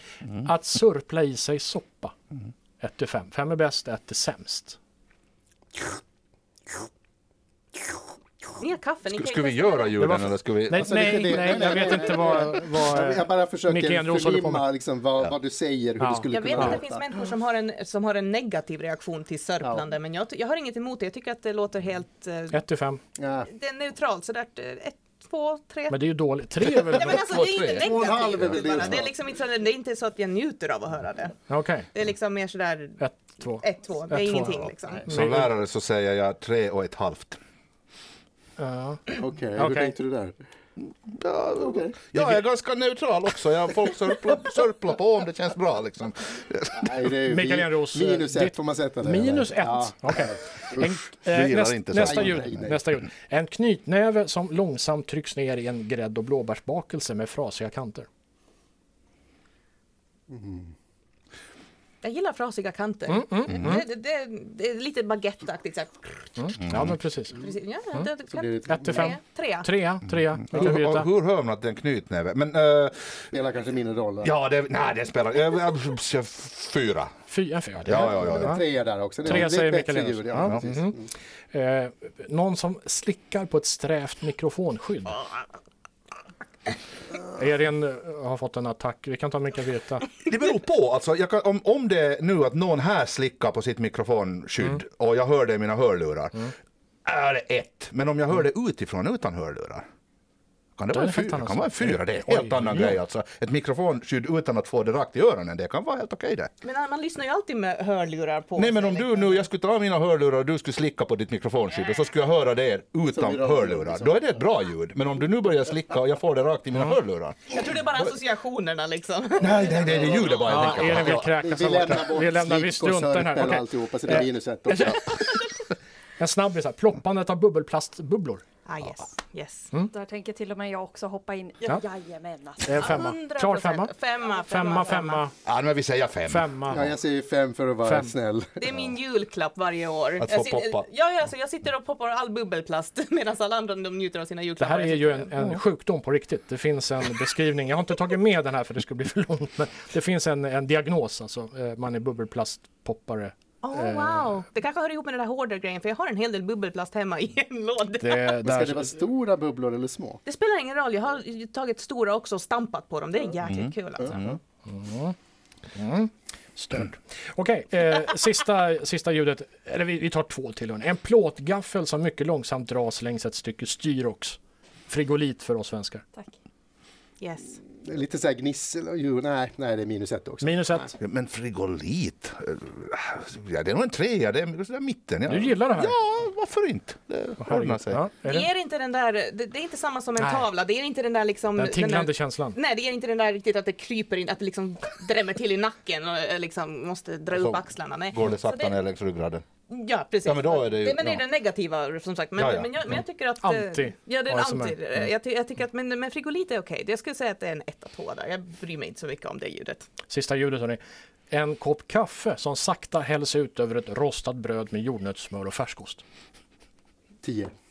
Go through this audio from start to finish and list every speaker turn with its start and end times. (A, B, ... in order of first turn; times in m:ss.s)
0:00.4-0:02.1 A
0:02.8-0:04.8 A
0:08.6-0:10.0 B
0:09.1-0:10.9 C
0:10.0-0:14.6 A
0:10.7-0:17.2 D
0:16.0-0:16.8 A
0:16.3-0:22.6 B
0:19.6-0:19.9 D
0:22.5-0:23.0 A
0:23.2-0:23.5 D
0:23.5-0:26.0 B
0:25.9-0:27.2 A
0:26.7-0:28.0 C
0:26.7-0:31.4 B
0:27.8-0:29.1 D
0:31.5-0:31.9 A
0:31.9-0:35.2 B
0:33.0-0:35.5 A
0:35.0-0:37.4 C
0:38.6-0:39.9 A
0:39.2-0:40.4 D
0:41.1-0:47.1 C
0:41.6-0:42.2 D
0:46.7-0:50.4 D
0:47.3-0:58.1 A
0:50.8-0:52.4 C
0:52.0-0:52.8 D
1:00.3-1:00.7 D
1:02.0-1:06.4 B
1:03.1-1:03.8 A
1:06.4-1:07.4 A
1:06.6-1:07.0 C
1:07.3-1:09.7 B
1:08.3-1:09.2 D
1:08.7-1:11.1 A
1:10.4-1:13.2 C
1:13.3-1:14.3 D
1:14.2-1:17.1 C
1:17.3-1:18.6 A
1:17.8-1:18.6 C
1:18.0-1:21.1 D
1:19.2-1:21.0 A
1:21.5-1:25.2 A
1:27.3-1:30.1 A
1:30.2-1:36.5 C
1:37.0-1:39.8 C
1:40.8-1:46.5 C
1:40.9-1:43.0 A
1:46.6-1:49.4 B
1:48.6-1:57.6 C
1:53.1-1:54.4 D
1:57.5-2:00.8 B
1:59.4-2:01.3 C
1:59.8-2:00.3 D
2:00.5-2:05.5 A
2:01.2-2:05.2 D
2:06.2-2:08.4 A
2:08.7-2:09.7 B
2:09.9-2:12.9 E
2:12.6-2:15.3 A
2:12.7-2:15.2 B
2:15.4-2:16.8 C
2:16.2-2:16.9 A
2:16.7-2:18.6 D
2:17.8-2:18.1 A
2:18.6-2:25.5 B
2:20.2-2:20.8 C
2:24.6-2:34.3 A
2:33.6-2:38.3 B
2:37.9-2:39.0 A
2:38.4-2:40.2 D
2:40.2-2:44.2 B
2:43.4-2:44.4 C
2:44.0-2:44.4 D
2:44.6-2:45.2 A
2:45.7-2:56.0 A
2:57.2-2:57.6 B
2:57.8-3:00.9 D
3:00.4-3:00.9 A
3:01.0-3:08.0 C
3:05.3-3:06.0 A
3:07.4-3:08.5 A
3:08.2-3:18.8 B
3:10.2-3:10.5 A
3:11.6-3:12.6 A
3:17.3-3:19.4 C
3:19.7-3:29.9 B
3:20.2-3:21.2 C
3:22.4-3:22.8 C
3:23.4-3:24.8 A
3:30.1-3:36.0 A
3:37.2-3:37.5 D